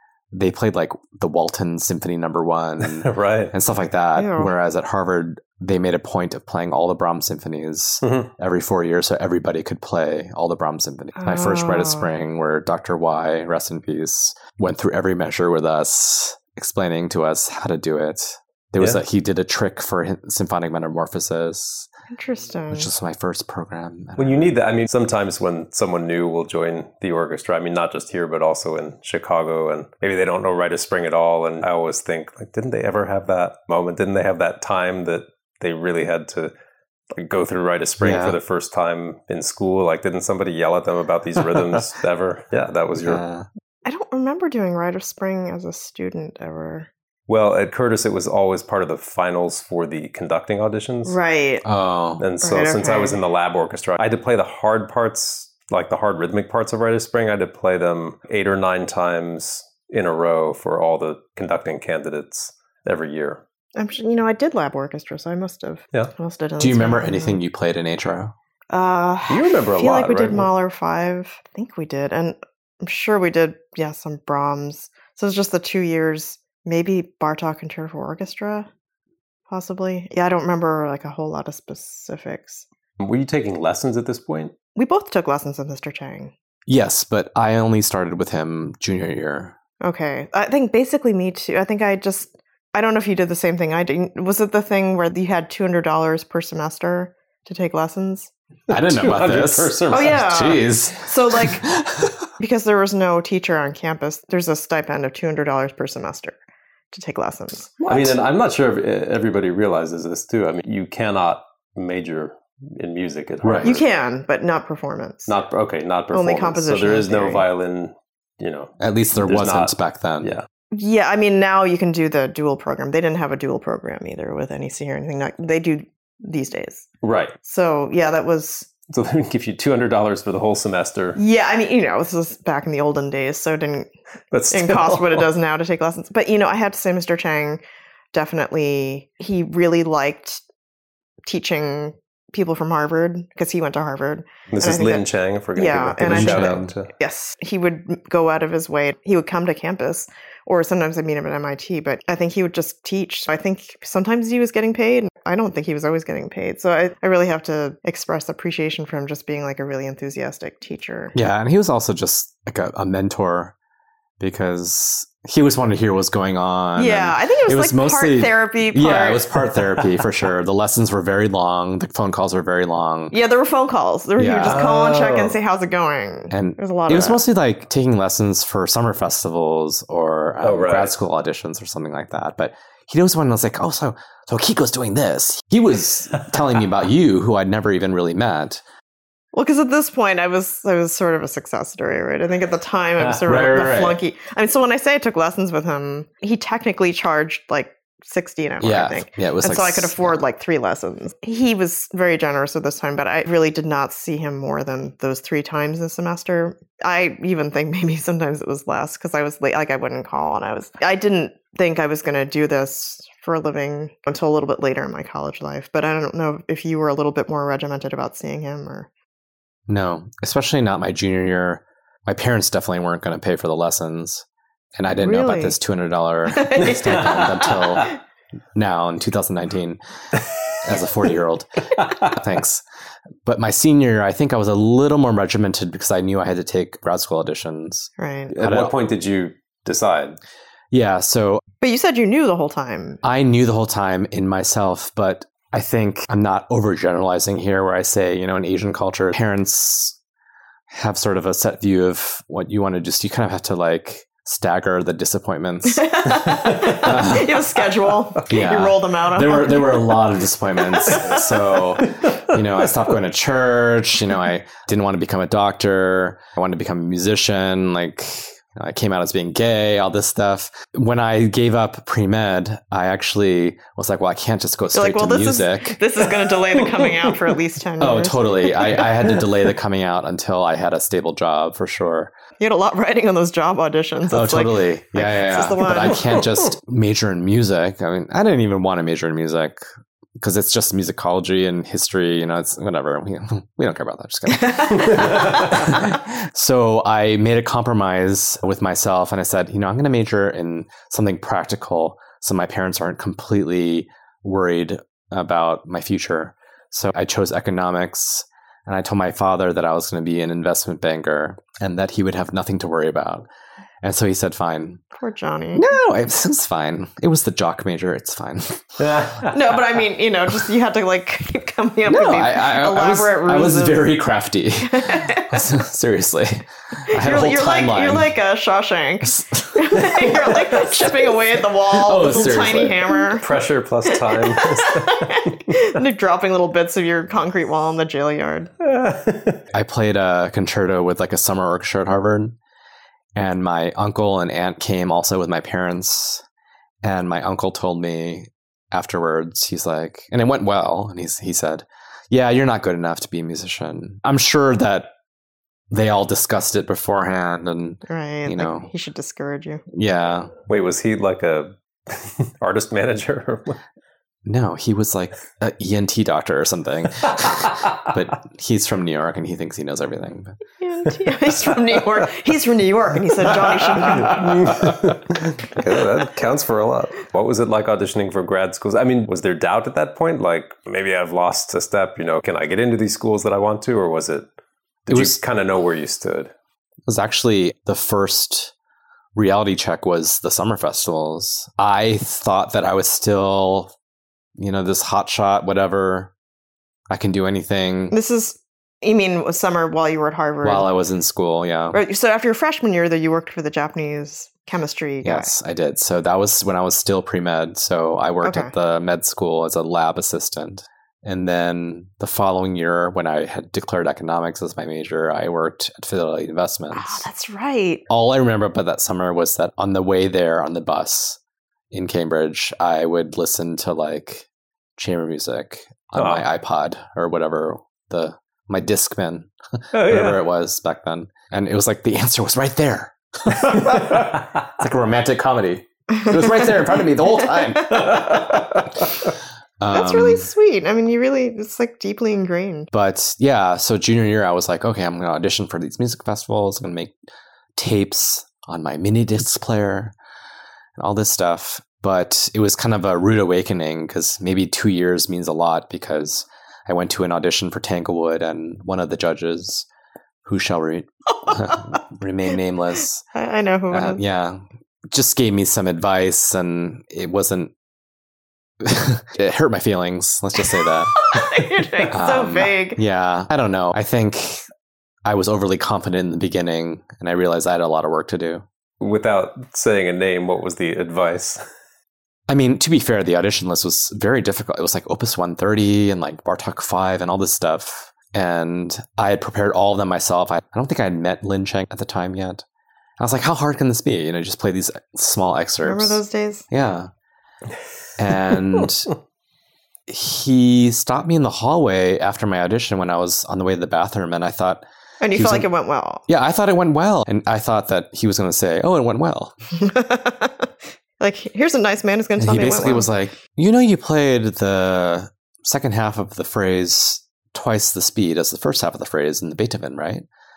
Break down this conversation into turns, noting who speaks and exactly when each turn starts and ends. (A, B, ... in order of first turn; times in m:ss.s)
0:00.3-0:21.9 A
0:02.8-0:03.5 B
0:04.2-0:04.5 C
0:08.0-0:08.3 B
0:11.2-0:12.1 C
0:22.1-0:22.9 C
0:22.7-0:24.6 A
0:24.2-0:36.5 B
0:37.1-0:43.2 B
0:38.0-0:38.4 A
0:43.0-0:43.5 A
0:43.8-0:46.9 C
0:47.3-0:51.2 B
0:51.1-0:51.7 C
0:51.6-0:52.2 A
0:52.2-1:03.4 B
0:52.4-0:53.2 C
1:03.8-1:07.4 C
1:06.6-1:08.3 A
1:08.7-1:18.7 C
1:09.3-1:10.5 B
1:19.5-1:22.6 C
1:23.0-1:24.5 B
1:24.8-1:26.3 C
1:26.7-1:29.6 A
1:29.8-1:38.3 C
1:38.7-1:40.2 B
1:38.7-1:42.3 A
1:39.9-1:41.7 C
1:42.4-1:46.4 C
1:46.9-1:47.8 C
1:47.8-1:48.2 A
1:47.9-1:53.9 B
1:53.4-1:53.8 A
1:53.6-1:55.3 C
1:55.3-2:00.5 B
1:56.1-1:57.5 C
1:58.8-2:00.4 A
2:00.7-2:06.9 C
2:07.0-2:07.4 B
2:07.4-2:08.7 C
2:08.9-2:11.2 B
2:11.2-2:13.9 C
2:14.3-2:15.3 B
2:14.5-2:17.6 C
2:18.1-2:20.4 C
2:21.3-2:41.2 C
2:24.5-2:26.9 B
2:26.0-2:26.7 A
2:41.1-2:43.6 A
2:44.2-2:53.2 A
2:46.8-2:49.5 C
2:53.1-2:57.2 C
2:54.2-2:54.7 A
2:54.4-2:55.4 B
2:56.3-3:08.6 A
3:00.4-3:00.9 B
3:09.3-3:38.9 C
3:13.2-3:14.0 A
3:18.6-3:20.2 A
3:39.7-3:47.9 A
3:44.9-3:45.6 C
3:46.3-3:47.9 C
3:46.6-3:47.9 B
3:48.6-3:49.8 A
3:50.6-3:52.6 A
3:51.8-3:52.2 B
3:53.2-3:58.7 A
3:58.0-3:58.3 C
3:58.3-4:00.2 B
4:00.7-4:01.4 A
4:01.6-4:03.0 C
4:03.0-4:10.0 A
4:10.7-4:15.9 A
4:15.7-4:20.1 C
4:16.1-4:16.9 B
4:16.8-4:17.4 A
4:18.3-4:35.8 A
4:20.7-4:21.3 C
4:21.8-4:22.3 B
4:34.7-4:38.9 C
4:37.8-4:42.1 A
4:42.4-4:46.3 C
4:44.1-4:49.6 A
4:50.2-5:13.3 A
4:54.4-4:55.6 C
5:13.8-5:14.8 A
5:15.0-5:15.7 C
5:15.5-5:18.8 A
5:18.8-5:19.4 B
5:19.3-5:23.9 C
5:21.9-5:28.1 A
5:24.6-5:25.4 C
5:26.9-5:33.3 C
5:29.0-5:30.9 A
5:31.7-5:33.0 A
5:33.2-5:35.4 B
5:33.8-5:38.5 C
5:38.6-5:39.4 B
5:39.5-5:42.4 A
5:43.2-5:46.2 A
5:46.8-5:54.9 A
5:55.7-5:58.7 A
5:57.9-5:59.6 C
5:59.7-6:00.3 A
6:00.5-6:03.6 B
6:04.2-6:10.4 A
6:07.1-6:07.7 B
6:10.6-6:14.4 C
6:13.6-6:24.3 B
6:24.9-6:26.3 B
6:24.9-6:25.2 A
6:26.9-6:28.5 A
6:29.2-6:33.7 A
6:34.4-6:36.1 A
6:36.9-6:38.0 A
6:37.9-6:40.7 C
6:40.4-6:41.8 A
6:41.7-6:45.3 C
6:45.0-6:57.0 A
6:48.2-6:48.5 C
6:56.7-6:57.8 C
6:57.9-7:01.2 A
7:01.7-7:18.9 A
7:06.0-7:06.2 B
7:09.7-7:10.2 B
7:16.0-7:16.3 C
7:17.3-7:18.4 C
7:19.6-7:20.3 A
7:19.7-7:22.7 C
7:22.7-7:27.0 A
7:27.6-7:30.0 A
7:30.8-7:39.7 A
7:40.2-7:43.0 A
7:41.3-7:41.6 C
7:43.1-7:44.0 C
7:43.7-7:47.5 A
7:48.6-7:54.4 A
7:50.5-7:52.8 C
7:55.0-7:58.4 A
7:58.8-8:01.4 B
8:02.3-8:12.4 A
8:13.0-8:16.9 A
8:15.6-8:16.5 C
8:18.0-8:18.9 A
8:19.9-8:24.6 A
8:25.0-8:26.0 C
8:25.1-8:25.5 A
8:26.1-8:29.4 A
8:29.6-8:32.9 C
8:32.2-8:40.1 A